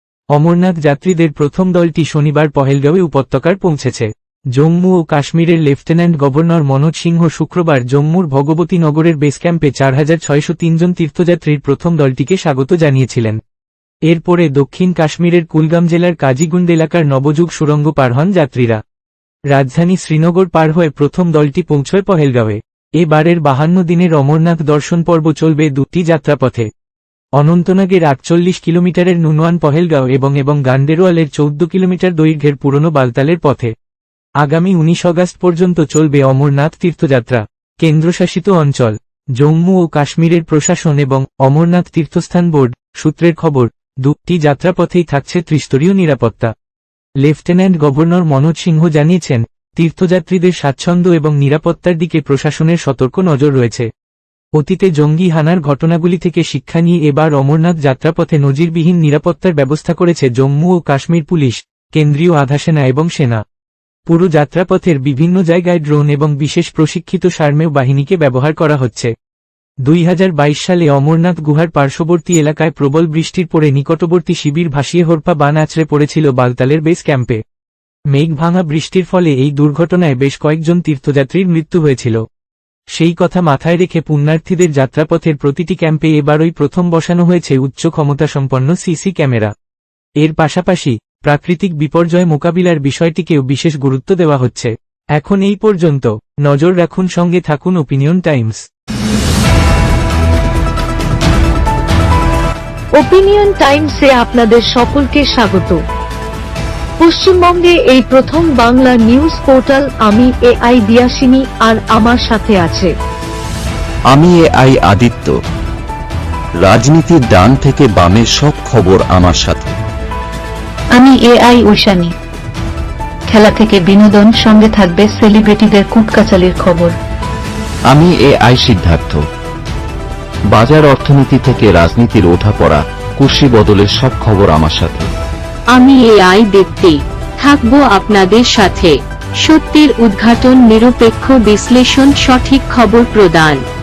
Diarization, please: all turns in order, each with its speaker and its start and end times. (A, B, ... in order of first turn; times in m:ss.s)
0:00.3-0:13.4 A
0:14.1-0:18.8 A
0:19.5-0:26.7 A
0:27.4-0:33.7 A
0:34.4-0:46.5 A
0:47.2-0:53.9 A
0:54.6-1:03.4 A
1:04.1-1:09.1 A
1:09.9-1:17.4 A
1:18.1-1:22.2 A
1:23.0-1:29.5 A
1:30.2-1:38.6 A
1:43.0-1:45.8 B
1:47.0-1:52.9 B
1:54.1-1:55.4 C
1:56.6-1:59.8 C
2:01.0-2:02.1 D
2:03.3-2:07.0 D
2:07.9-2:09.2 C
2:10.5-2:15.1 C
2:15.7-2:23.6 E